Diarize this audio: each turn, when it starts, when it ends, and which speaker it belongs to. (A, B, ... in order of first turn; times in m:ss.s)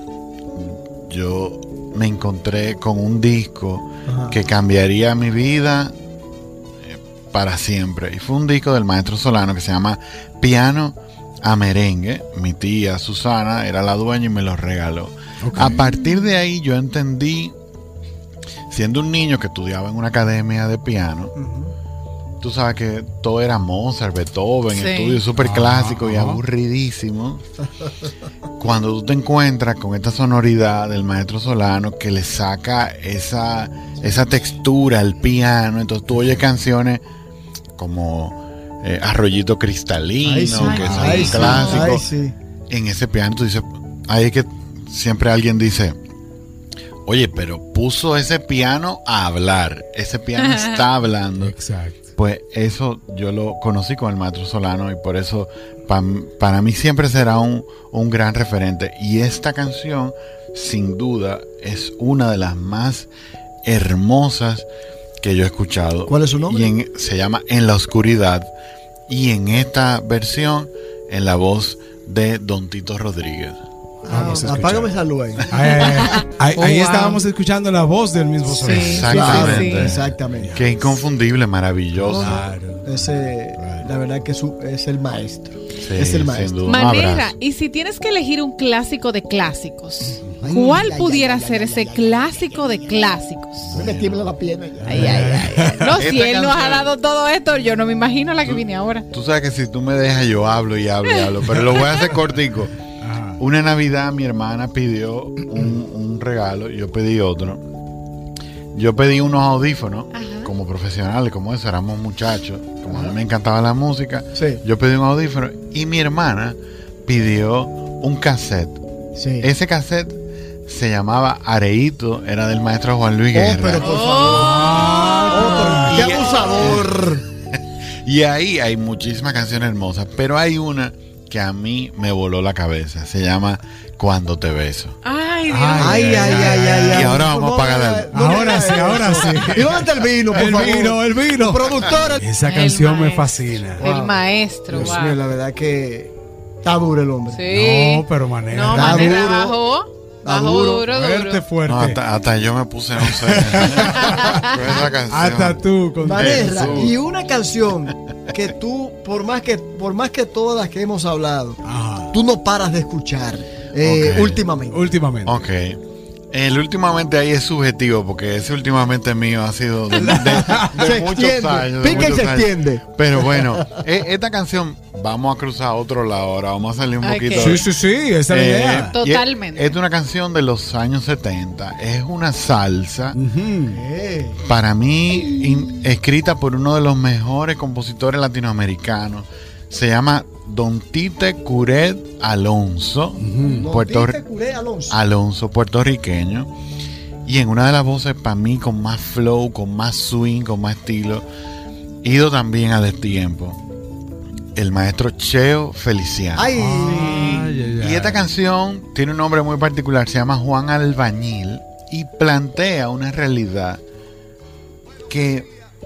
0:00.6-0:06.0 A
0:04.1-0:04.4 B
0:06.8-0:17.6 A
0:15.4-0:15.8 C
0:15.5-0:16.3 D
0:18.7-0:21.3 A
0:21.4-0:21.7 B
0:22.4-0:27.4 A
0:24.7-0:25.2 D
0:25.4-0:26.4 C
0:28.6-0:37.0 A
0:37.8-0:42.0 A
0:40.2-0:42.4 B
0:40.6-0:42.0 D
0:40.7-0:41.6 C
0:42.7-0:46.0 A
0:47.1-0:51.6 A
0:50.4-0:50.8 D
0:51.4-0:52.1 C
0:52.2-1:03.1 A
1:03.7-1:04.7 A
1:05.2-1:08.5 A
1:06.1-1:06.7 B
1:09.1-1:13.6 A
1:14.0-1:15.4 B
1:14.1-1:14.9 C
1:15.5-1:20.9 C
1:15.8-1:17.2 D
1:18.5-1:19.8 D
1:18.6-1:20.0 A
1:19.1-1:20.6 B
1:20.5-1:22.4 A
1:22.0-1:23.0 C
1:22.1-1:26.6 B
1:23.6-1:23.9 C
1:25.8-1:27.3 A
1:26.6-1:33.8 D
1:30.2-1:30.9 C
1:30.4-1:33.0 B
1:33.7-1:34.0 C
1:33.7-1:35.2 B
1:34.8-1:36.0 C
1:34.8-1:39.1 D
1:36.0-1:36.9 A
1:38.4-1:42.7 A
1:41.1-1:41.3 D
1:43.0-1:43.4 C
1:43.4-1:47.6 A
1:48.7-1:58.8 A
1:50.1-1:50.5 D
1:52.9-1:53.2 B
1:54.4-1:54.6 B
1:59.2-1:59.5 B
1:59.4-2:04.0 A
2:03.3-2:07.2 B
2:03.8-2:05.8 D
2:04.2-2:06.2 C
2:05.9-2:07.0 A
2:07.5-2:15.0 A
2:15.0-2:16.6 D
2:15.5-2:17.3 C
2:15.8-2:22.2 B
2:16.8-2:18.2 A
2:18.1-2:23.8 C
2:22.4-2:25.2 D
2:23.8-2:24.2 B
2:24.7-2:26.1 B
2:26.6-2:27.4 B
2:27.3-2:31.4 D
2:27.5-2:29.2 C
2:28.7-2:29.6 B
2:30.2-2:30.9 B
2:30.9-2:32.0 C
2:31.7-2:37.0 A
2:33.0-2:36.9 C
2:36.0-2:41.6 B
2:41.6-2:42.1 C
2:42.1-2:44.8 B
2:43.8-2:44.4 A
2:44.7-2:45.4 C
2:45.3-2:45.8 A
2:46.3-2:57.7 A
2:50.0-2:50.8 C
2:50.6-2:53.6 B
2:57.0-2:57.6 D
2:57.3-2:59.0 C
2:58.3-3:03.2 A
2:58.9-2:59.8 D
3:03.1-3:03.8 C
3:03.7-3:04.4 B
3:04.4-3:14.2 A
3:13.2-3:13.7 C
3:13.5-3:15.0 B
3:14.9-3:16.5 A
3:17.2-3:21.3 A
3:22.0-3:23.6 A
3:24.6-3:33.8 A
3:26.4-3:27.3 B
3:26.6-3:28.2 C
3:35.1-3:35.5 A